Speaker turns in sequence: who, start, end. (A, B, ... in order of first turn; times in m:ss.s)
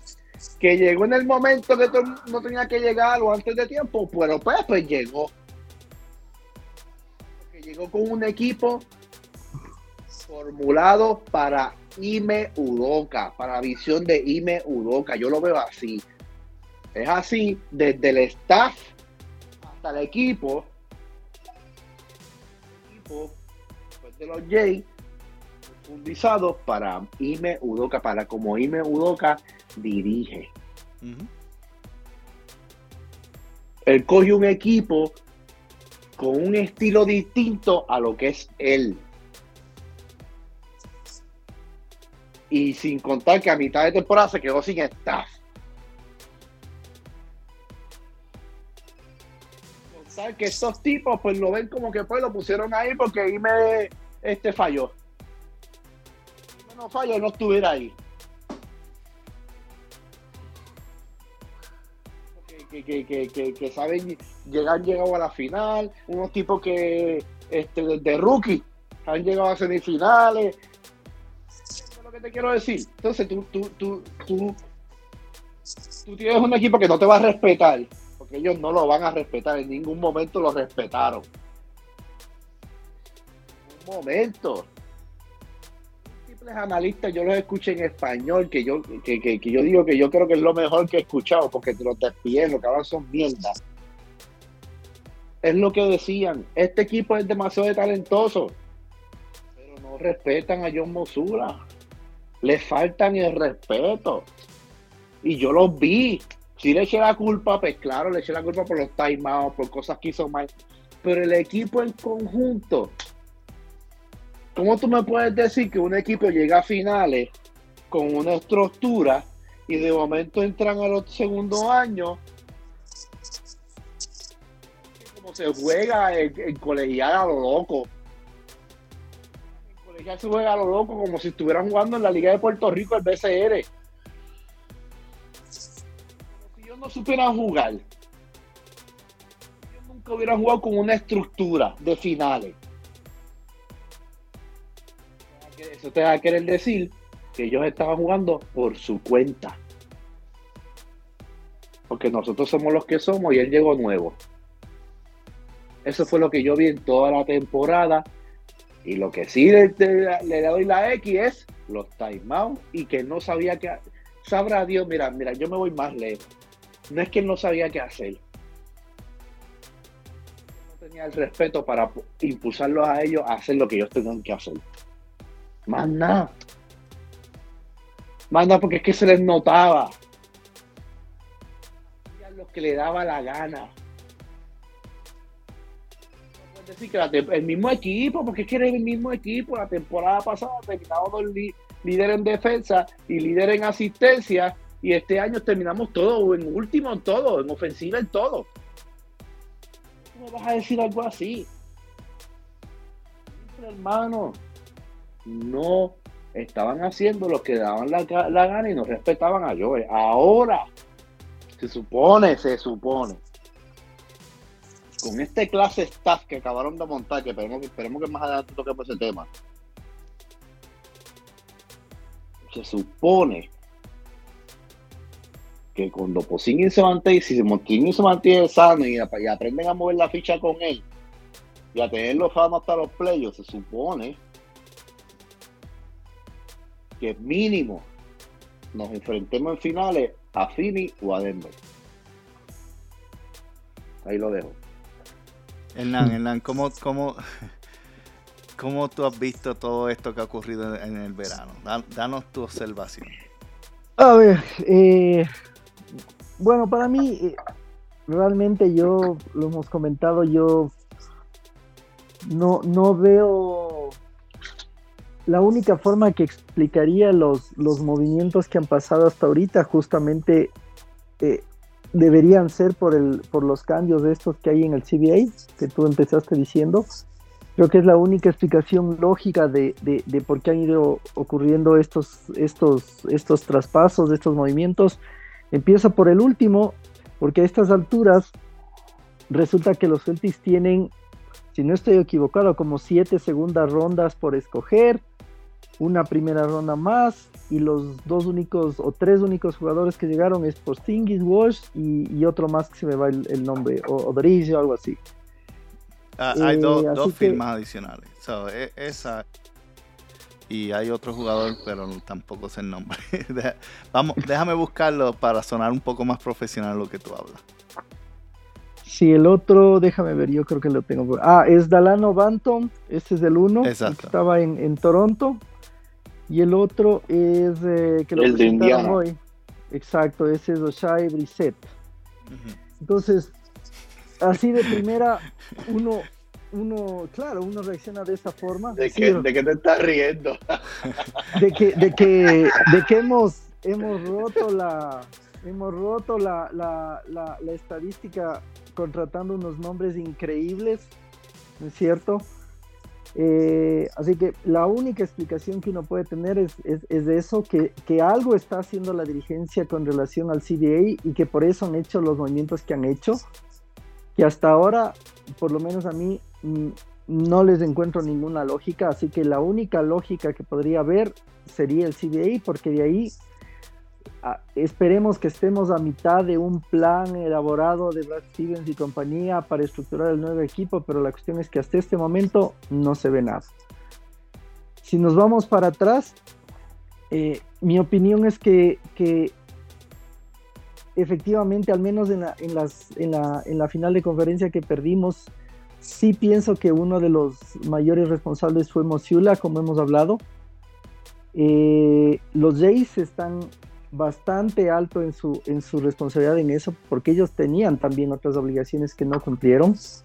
0:00.6-0:05.3 A
0:07.4-0:08.9 A
0:10.3-0:16.0 A
0:16.9-0:18.9 A
0:19.6-0:20.7 A
0:22.7-0:23.4 A
0:24.0-0:24.9 A
0:25.7-0:30.5 A
0:31.0-0:31.3 B
0:33.9-0:35.2 A
0:36.2-0:39.0 A
0:42.5-0:45.3 A
0:49.9-0:54.9 A
0:56.6-0:58.0 A
1:02.4-1:10.6 A
1:11.7-1:14.6 A
1:16.0-1:21.3 A
1:23.7-1:24.7 A
1:26.1-1:33.6 A
1:35.4-1:38.6 A
1:39.6-1:41.6 A
1:42.4-1:44.3 A
1:45.2-1:50.5 A
1:51.0-1:53.0 A
1:54.5-1:57.3 A
1:57.9-2:02.2 A
2:04.9-2:07.9 A
2:09.7-2:13.7 A
2:16.4-2:17.8 A
2:19.7-2:22.6 A
2:25.4-2:29.6 A
2:31.9-2:34.2 A
2:35.8-2:38.1 A
2:38.8-2:46.3 A
2:46.9-2:48.2 A
2:50.6-2:54.6 A
2:55.7-2:56.3 A
2:58.3-2:59.9 A
3:02.1-3:03.7 A
3:06.4-3:18.5 A
3:20.1-3:21.5 A
3:23.4-3:24.4 A
3:25.2-3:30.7 A
3:31.6-3:33.2 A
3:35.0-3:39.3 A
3:42.5-3:43.5 A
3:45.7-3:50.8 A
3:51.7-3:54.2 A
3:57.0-3:57.9 A
3:58.7-4:01.6 A
4:04.0-4:04.6 A
4:05.7-4:07.5 B
4:08.6-4:13.2 B
4:14.0-4:15.3 C
4:16.4-4:17.4 C
4:18.1-4:20.7 C
4:22.2-4:24.0 C
4:25.2-4:30.5 C
4:31.2-4:36.8 C
4:37.6-4:45.0 C
4:45.5-4:48.3 C
4:49.3-4:50.9 C
4:51.5-4:55.0 C
4:55.8-5:05.0 C
5:06.2-5:09.2 B
5:06.3-5:07.4 C
5:10.5-5:17.4 B
5:18.9-5:25.4 C
5:23.6-5:24.1 B
5:26.3-5:29.2 C
5:28.2-5:29.0 A
5:29.7-5:31.7 C
5:32.3-5:32.6 B
5:32.8-5:33.3 C
5:34.2-5:39.2 C
5:38.8-5:41.4 A
5:41.3-5:50.9 C
5:51.6-5:52.3 C
5:53.1-6:03.2 C
6:04.2-6:13.1 C
6:14.2-6:23.5 C
6:24.8-6:26.2 C
6:27.1-6:29.3 C
6:31.0-6:35.3 C
6:35.8-6:40.2 C
6:41.3-6:49.8 C